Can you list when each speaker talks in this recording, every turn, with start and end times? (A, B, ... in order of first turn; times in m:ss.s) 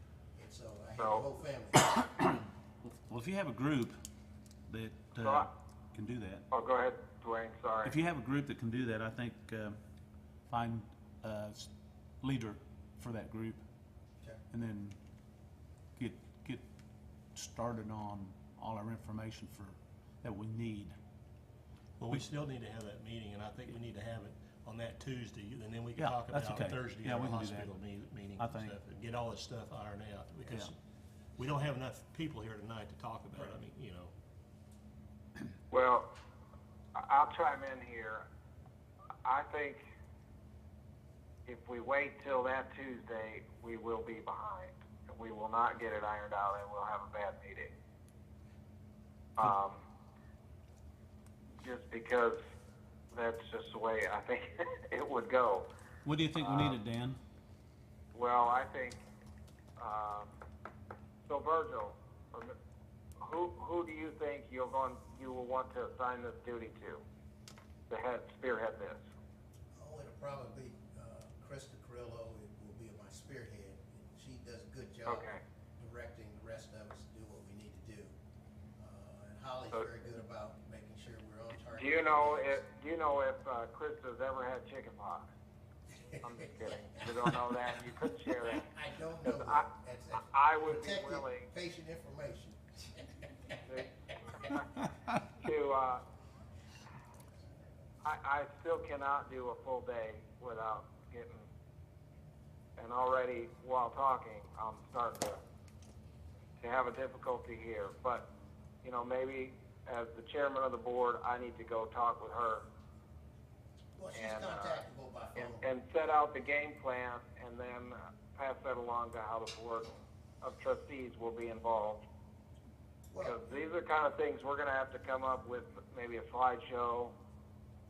0:00.4-0:02.1 A
0:01.0-0:01.3 B
0:03.1-0:04.0 C
0:04.7-0:06.4 C
0:05.2-0:05.5 B
0:06.5-0:08.0 B
0:07.8-0:09.8 C
0:10.5-0:11.7 C
0:12.2-0:13.6 C
0:14.5-0:15.0 C
0:16.0-0:16.6 C
0:17.3-0:21.0 C
0:22.0-0:30.7 D
0:26.0-0:27.8 C
0:28.4-0:28.8 C
0:31.4-0:34.1 D
0:35.7-0:36.1 B
0:37.0-0:38.2 B
0:39.2-0:39.8 B
0:41.5-0:47.7 B
0:49.4-0:49.8 B
0:51.6-0:52.4 B
0:53.1-0:55.7 B
0:56.0-0:57.2 C
0:56.4-0:56.8 B
0:58.1-0:59.0 B
0:59.8-1:00.3 B
1:01.3-1:02.6 B
1:03.2-1:07.0 B
1:07.9-1:09.0 B
1:09.8-1:18.2 A
1:15.1-1:15.4 B
1:18.8-1:22.6 A
1:21.8-1:25.3 B
1:26.0-1:27.8 A
1:26.2-1:28.7 B
1:28.4-1:33.1 A
1:29.2-1:29.7 B
1:30.2-1:31.5 B
1:35.4-1:36.0 B
1:38.0-1:41.5 B
1:42.8-1:45.4 B
1:46.6-1:48.3 B
1:48.8-1:52.6 B
1:54.0-1:55.7 A
1:54.1-1:54.8 B
1:55.4-2:02.0 B
2:03.1-2:03.4 A
2:03.2-2:07.2 B